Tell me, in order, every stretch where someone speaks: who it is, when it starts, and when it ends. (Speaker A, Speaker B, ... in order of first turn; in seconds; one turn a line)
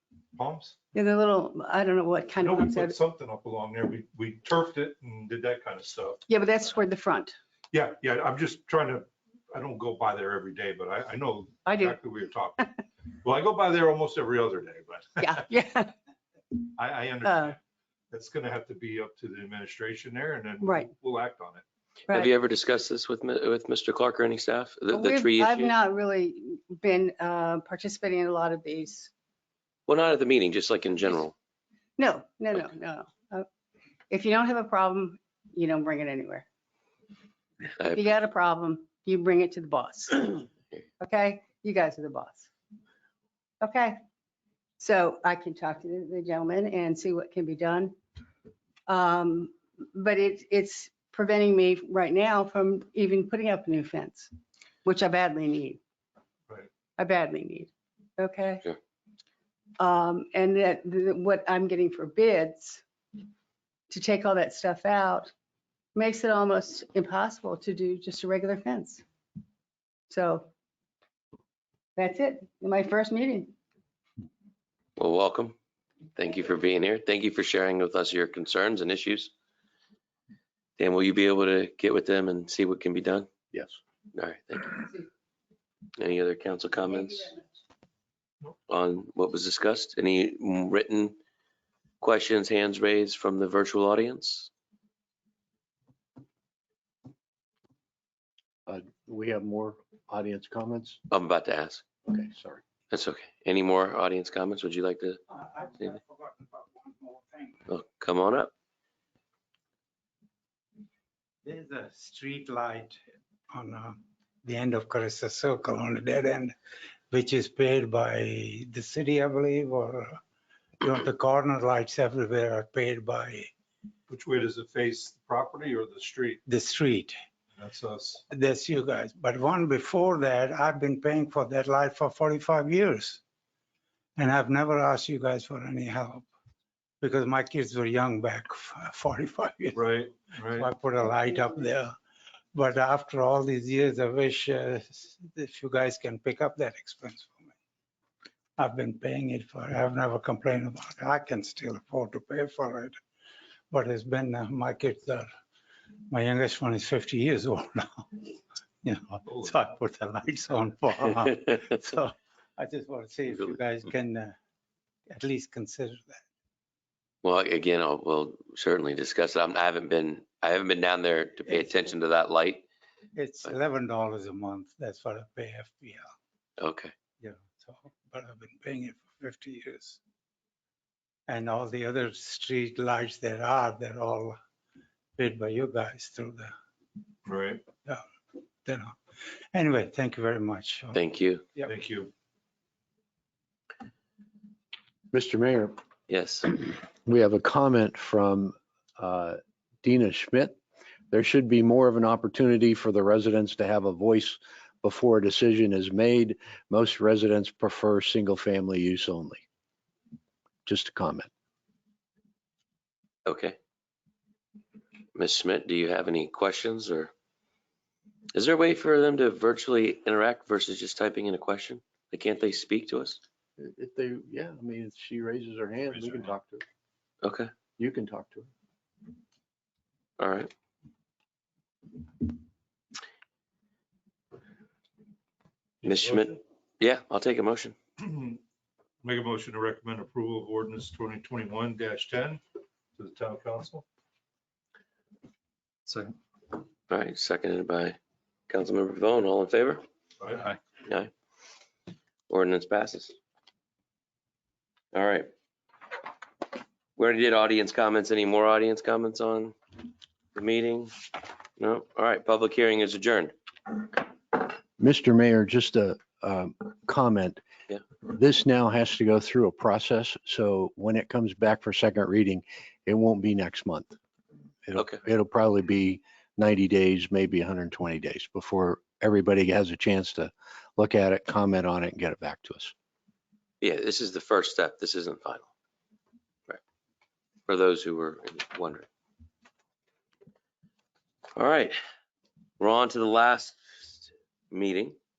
Speaker A: 0.3-0.8
Speaker B: 0.9-3.0
Speaker A: 2.4-6.2
Speaker B: 6.3-7.3
Speaker A: 7.7-12.6
Speaker B: 11.7-12.0
Speaker A: 13.2-15.4
Speaker B: 15.2-15.9
Speaker A: 16.8-17.6
Speaker B: 17.2-17.6
Speaker A: 18.1-21.7
Speaker B: 20.6-20.9
Speaker C: 22.1-25.7
Speaker B: 24.9-29.1
Speaker C: 29.9-31.3
Speaker B: 32.0-33.5
Speaker B: 34.1-36.5
Speaker C: 37.8-38.1
Speaker B: 37.9-40.5
Speaker B: 41.0-42.5
Speaker B: 43.6-44.0
Speaker B: 44.8-48.0
Speaker B: 48.9-54.3
Speaker B: 54.9-55.8
Speaker B: 57.0-58.6
Speaker B: 59.8-62.8
Speaker B: 63.9-65.3
Speaker B: 66.0-69.0
Speaker B: 70.1-70.5
Speaker B: 72.0-73.5
Speaker C: 75.0-75.5
Speaker C: 76.2-79.3
Speaker C: 80.8-83.3
Speaker D: 83.5-83.8
Speaker C: 84.1-84.9
Speaker C: 86.0-87.4
Speaker C: 88.7-91.2
Speaker C: 92.0-94.5
Speaker D: 98.7-101.0
Speaker C: 101.1-101.8
Speaker D: 102.1-102.6
Speaker C: 102.9-105.2
Speaker E: 105.3-107.6
Speaker C: 107.7-108.5
Speaker E: 111.4-116.5
Speaker E: 117.1-120.2
Speaker E: 120.8-123.5
Speaker A: 124.1-126.4
Speaker E: 126.5-127.2
Speaker A: 127.6-128.2
Speaker E: 128.3-133.2
Speaker E: 134.2-136.3
Speaker E: 137.0-139.8
Speaker A: 139.7-140.7
Speaker E: 140.5-141.9
Speaker E: 142.5-147.5
Speaker E: 148.6-153.0
Speaker E: 153.7-155.3
Speaker E: 156.1-158.2
Speaker E: 158.8-164.4
Speaker E: 165.1-166.2
Speaker C: 167.2-172.7
Speaker E: 173.2-176.1
Speaker C: 176.6-176.9
Speaker E: 177.2-180.0
Speaker E: 181.3-184.4
Speaker E: 185.2-186.5
Speaker A: 187.3-187.6
Speaker E: 188.7-189.0
Speaker E: 189.5-191.0
Speaker C: 190.9-191.4
Speaker A: 191.7-192.1
Speaker D: 195.1-195.8
Speaker C: 196.1-196.5
Speaker D: 197.1-200.6
Speaker D: 201.1-209.4
Speaker D: 210.7-211.3
Speaker C: 213.2-213.6
Speaker C: 215.2-217.1
Speaker C: 218.3-223.2
Speaker D: 223.6-226.6
Speaker A: 225.9-226.3
Speaker C: 227.2-227.5
Speaker D: 227.8-228.5
Speaker C: 230.2-230.5
Speaker A: 235.8-236.4
Speaker C: 235.8-237.8
Speaker A: 238.0-238.4
Speaker A: 239.0-242.4
Speaker A: 243.0-243.8
Speaker A: 245.9-246.2
Speaker C: 246.9-248.0
Speaker C: 248.5-249.8
Speaker A: 250.2-250.6
Speaker C: 250.8-251.1
Speaker C: 252.3-253.2
Speaker C: 254.9-255.3
Speaker C: 257.0-259.6
Speaker C: 260.4-263.8
Speaker D: 264.8-267.4
Speaker D: 268.0-274.0
Speaker D: 274.6-282.7
Speaker C: 274.8-275.0
Speaker C: 283.6-285.5
Speaker C: 287.5-288.9
Speaker C: 291.4-291.8
Speaker C: 292.6-295.0